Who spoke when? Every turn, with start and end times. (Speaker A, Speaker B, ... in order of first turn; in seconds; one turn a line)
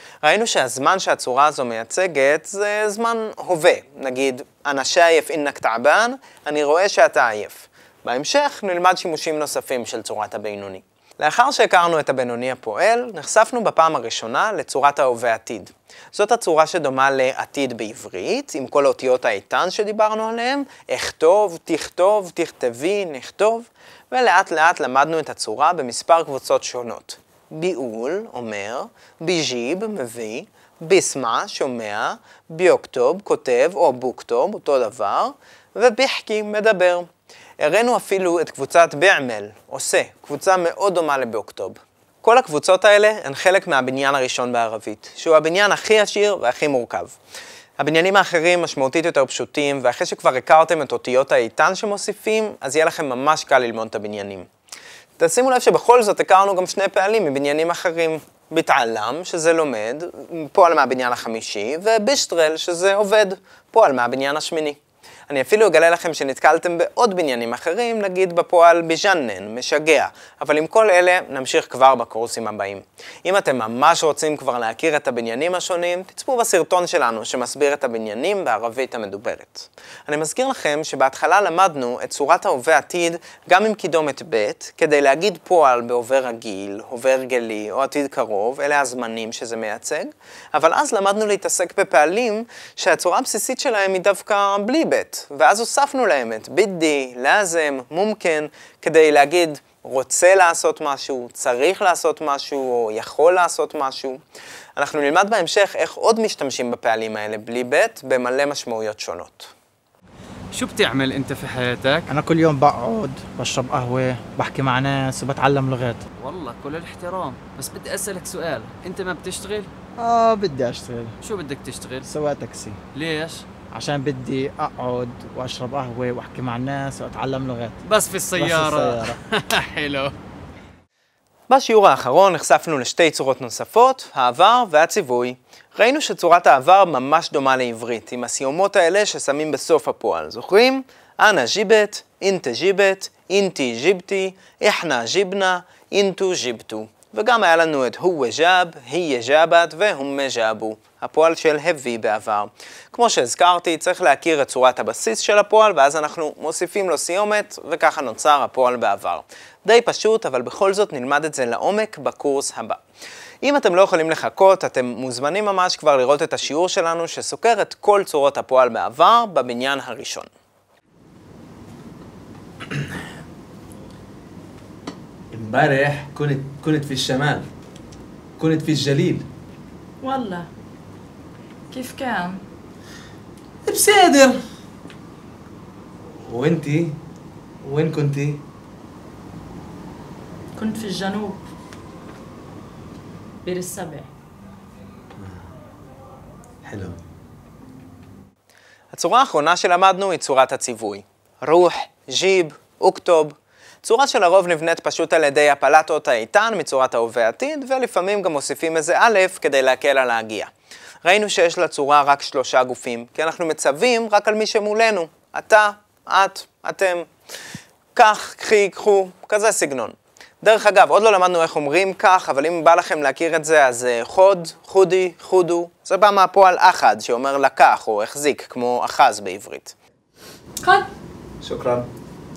Speaker A: 0.2-37.1
Speaker A: 37.6-47.1
Speaker A: 47.8-54.5
Speaker A: 55.2-104.2
Speaker A: 104.8-109.5
Speaker B: 110.5-112.1
Speaker C: 112.1-116.0
Speaker B: 116.2-119.7
Speaker C: 120.0-121.2
Speaker B: 121.2-122.1
Speaker C: 122.0-122.8
Speaker B: 122.9-123.4
Speaker C: 123.7-127.8
Speaker B: 127.8-130.1
Speaker C: 128.3-129.2
Speaker A: 131.5-162.8
Speaker A: 163.4-170.3
Speaker D: 175.3-177.5
Speaker D: 178.4-179.3
Speaker E: 180.0-180.5
Speaker E: 181.7-182.4
Speaker D: 183.6-184.4
Speaker D: 186.2-187.0
Speaker D: 187.6-188.4
Speaker E: 190.5-191.4
Speaker E: 193.4-194.1
Speaker D: 196.6-197.0
Speaker A: 198.9-210.5
Speaker A: 211.0-217.1
Speaker A: 217.9-229.7
Speaker E: 230.6-230.9
Speaker A: 231.4-231.8